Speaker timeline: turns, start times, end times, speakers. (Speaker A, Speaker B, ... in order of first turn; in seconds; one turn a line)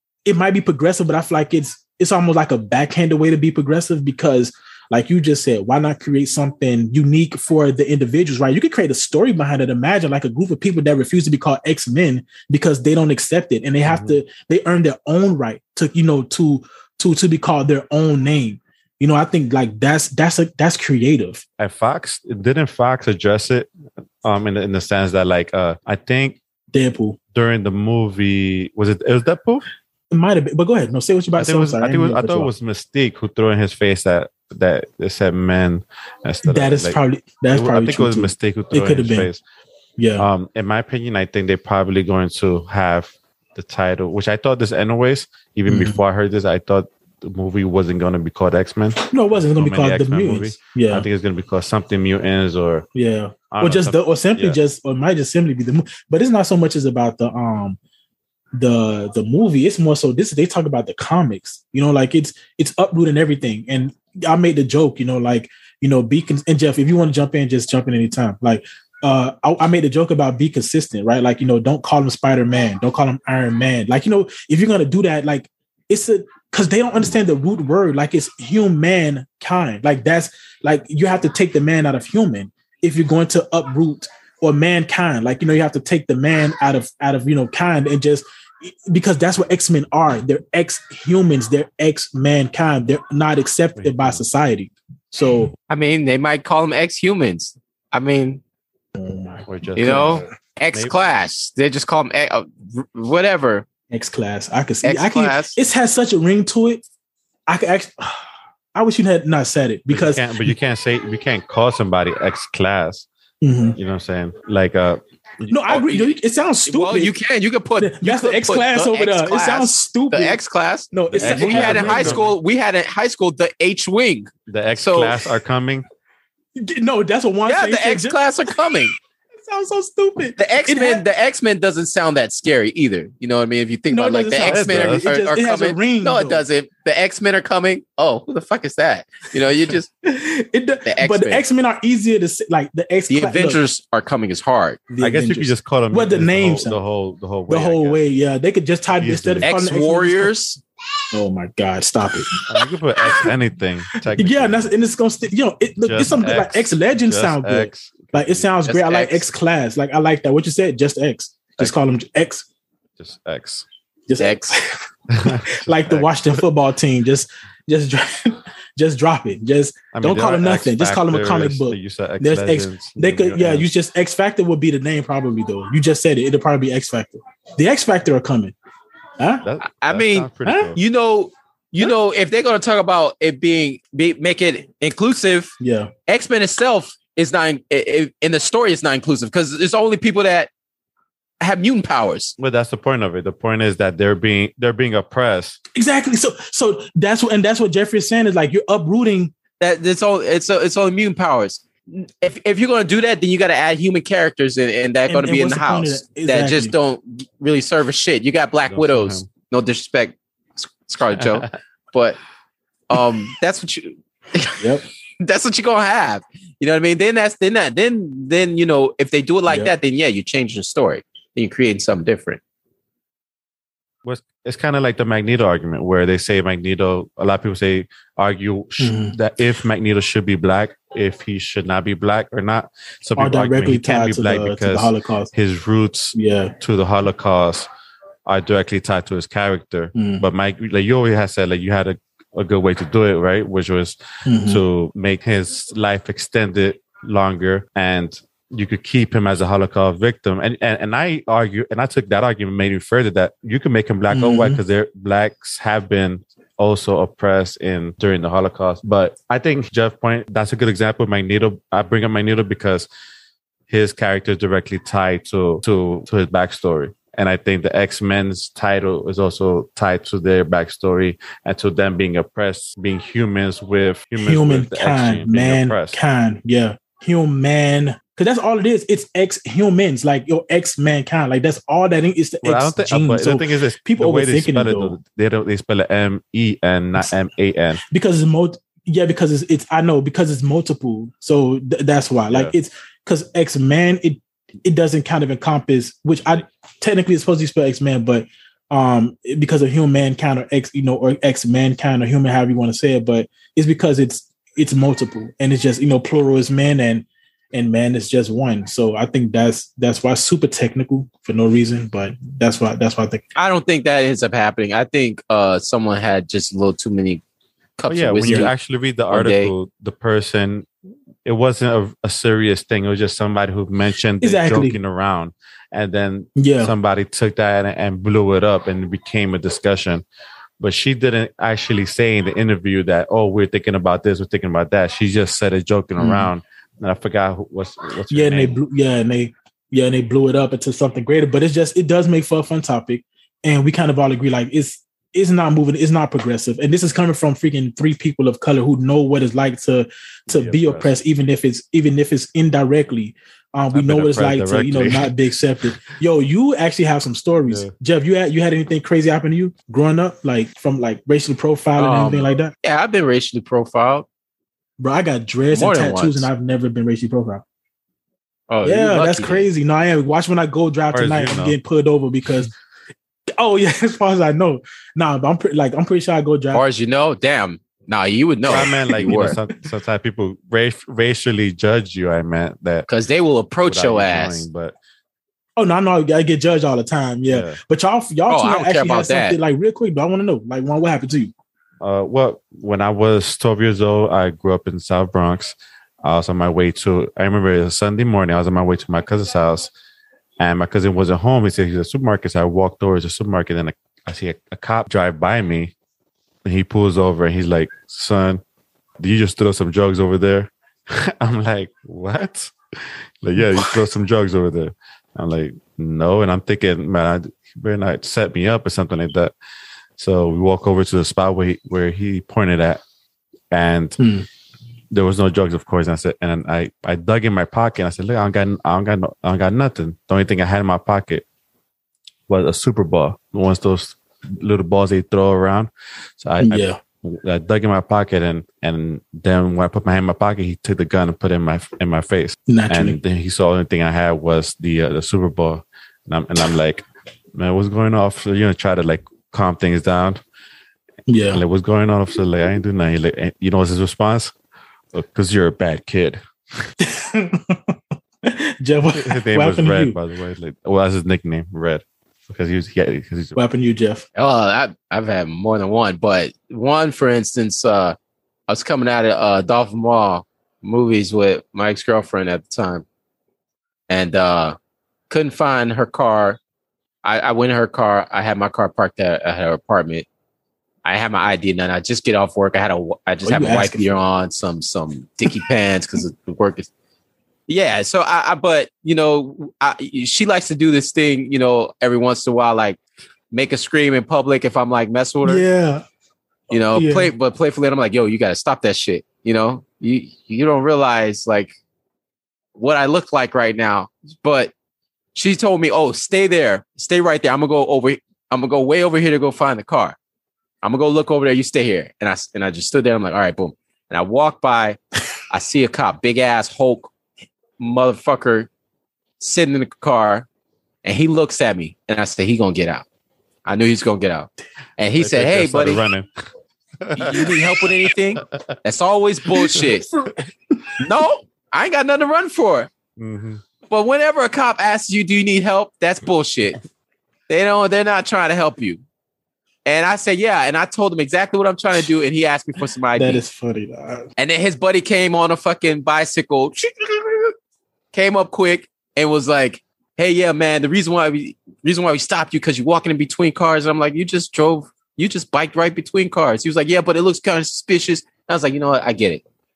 Speaker A: 0.2-21.4
Speaker B: 13.9-14.2
Speaker B: 21.6-23.7
Speaker B: 24.2-26.4
Speaker A: 26.7-27.2
Speaker B: 27.3-29.6
Speaker A: 30.1-32.5
Speaker B: 31.4-37.0
Speaker A: 36.4-39.3
Speaker B: 37.5-39.4
Speaker A: 40.0-40.3
Speaker B: 40.2-52.9
Speaker A: 45.7-46.0
Speaker A: 49.1-51.0
Speaker A: 52.9-57.8
Speaker B: 53.5-54.6
Speaker A: 58.5-95.5
Speaker B: 93.8-94.2
Speaker C: 95.7-98.4
Speaker A: 99.0-100.2
Speaker B: 99.5-100.9
Speaker C: 99.8-103.6
Speaker A: 103.9-106.8
Speaker C: 104.8-105.6
Speaker A: 107.5-110.5
Speaker B: 109.9-113.1
Speaker A: 113.4-113.8
Speaker B: 113.8-115.8
Speaker A: 115.5-117.1
Speaker C: 115.7-116.1
Speaker C: 116.7-125.2
Speaker A: 117.8-120.4
Speaker A: 120.9-122.3
Speaker B: 121.1-122.3
Speaker B: 124.5-125.8
Speaker A: 126.5-128.2
Speaker C: 127.5-128.9
Speaker A: 129.4-131.0
Speaker C: 130.4-139.9
Speaker A: 133.9-136.4
Speaker B: 134.5-135.1
Speaker A: 140.0-143.6
Speaker C: 140.9-141.4
Speaker C: 143.1-144.8
Speaker A: 144.9-146.8
Speaker B: 145.0-148.0
Speaker A: 147.5-150.3
Speaker B: 148.9-149.5
Speaker C: 149.4-150.6
Speaker A: 151.1-153.3
Speaker B: 152.5-154.7
Speaker A: 154.1-162.5
Speaker B: 155.8-158.5
Speaker C: 158.7-159.2
Speaker B: 163.0-163.6
Speaker A: 164.1-164.7
Speaker C: 164.2-164.5
Speaker B: 165.1-166.4
Speaker A: 165.2-178.5
Speaker B: 169.9-173.7
Speaker A: 179.2-179.5
Speaker B: 179.4-180.8
Speaker C: 179.6-185.5
Speaker A: 180.4-180.7
Speaker A: 185.6-185.9
Speaker C: 186.1-190.5
Speaker C: 191.4-192.3
Speaker B: 192.4-195.6
Speaker A: 195.7-199.3
Speaker C: 199.6-212.2
Speaker A: 205.1-206.7
Speaker B: 208.7-209.3
Speaker B: 211.1-211.4
Speaker C: 212.9-214.6
Speaker C: 215.2-222.4
Speaker B: 224.0-237.7
Speaker A: 228.8-229.1
Speaker A: 233.2-235.3
Speaker A: 236.1-236.5
Speaker B: 238.2-262.9
Speaker A: 239.9-240.2
Speaker A: 244.2-244.6
Speaker A: 254.1-254.6
Speaker B: 263.7-276.0
Speaker A: 274.2-284.9
Speaker B: 282.4-287.8
Speaker A: 287.9-313.2
Speaker C: 313.4-317.2
Speaker C: 317.8-318.5
Speaker B: 317.9-320.7
Speaker C: 319.1-319.5
Speaker B: 321.2-330.0
Speaker A: 324.2-324.8
Speaker A: 326.4-326.7
Speaker B: 330.6-338.6
Speaker A: 336.0-336.3
Speaker A: 338.1-362.5
Speaker B: 350.3-351.0
Speaker B: 353.7-355.1
Speaker B: 357.5-357.7
Speaker C: 361.8-364.1
Speaker A: 364.8-367.4
Speaker C: 365.5-366.3
Speaker C: 368.5-369.5
Speaker A: 368.6-372.5
Speaker B: 370.9-371.6
Speaker A: 373.4-376.6
Speaker C: 376.5-379.4
Speaker B: 378.4-382.9
Speaker A: 378.6-379.4
Speaker C: 382.9-384.4
Speaker B: 383.6-384.8
Speaker A: 385.6-391.3
Speaker B: 387.3-387.6
Speaker C: 388.3-389.4
Speaker B: 391.8-399.7
Speaker B: 400.4-405.7
Speaker B: 406.4-408.4
Speaker B: 409.0-419.3
Speaker B: 420.0-422.8
Speaker B: 423.5-424.0
Speaker A: 424.0-424.2
Speaker B: 424.9-431.2
Speaker B: 432.3-450.2
Speaker A: 436.4-436.8
Speaker A: 442.5-443.0
Speaker A: 451.1-451.4
Speaker B: 451.3-454.3
Speaker B: 454.9-456.2
Speaker A: 456.8-460.0
Speaker B: 459.0-463.4
Speaker A: 463.4-464.1
Speaker C: 464.1-467.9
Speaker C: 468.5-472.8
Speaker C: 473.9-474.6
Speaker C: 475.1-476.4
Speaker C: 477.0-480.1
Speaker C: 480.9-486.7
Speaker A: 483.2-483.9
Speaker C: 487.5-492.8
Speaker C: 493.3-495.4
Speaker A: 495.2-495.8
Speaker C: 496.5-501.5
Speaker A: 496.7-497.1
Speaker C: 502.6-504.5
Speaker C: 505.1-509.9
Speaker C: 510.6-514.8
Speaker C: 515.3-516.9
Speaker C: 517.6-518.5
Speaker C: 519.2-520.2
Speaker C: 520.8-522.9
Speaker C: 523.5-525.8
Speaker B: 524.9-526.1
Speaker B: 526.8-527.6
Speaker C: 527.0-529.9
Speaker B: 528.2-528.5
Speaker A: 529.4-530.8
Speaker C: 530.8-532.7
Speaker B: 533.0-533.4
Speaker C: 533.7-536.6
Speaker C: 537.3-538.8
Speaker C: 539.6-543.2
Speaker A: 542.9-544.0
Speaker C: 544.2-547.1
Speaker C: 547.9-559.2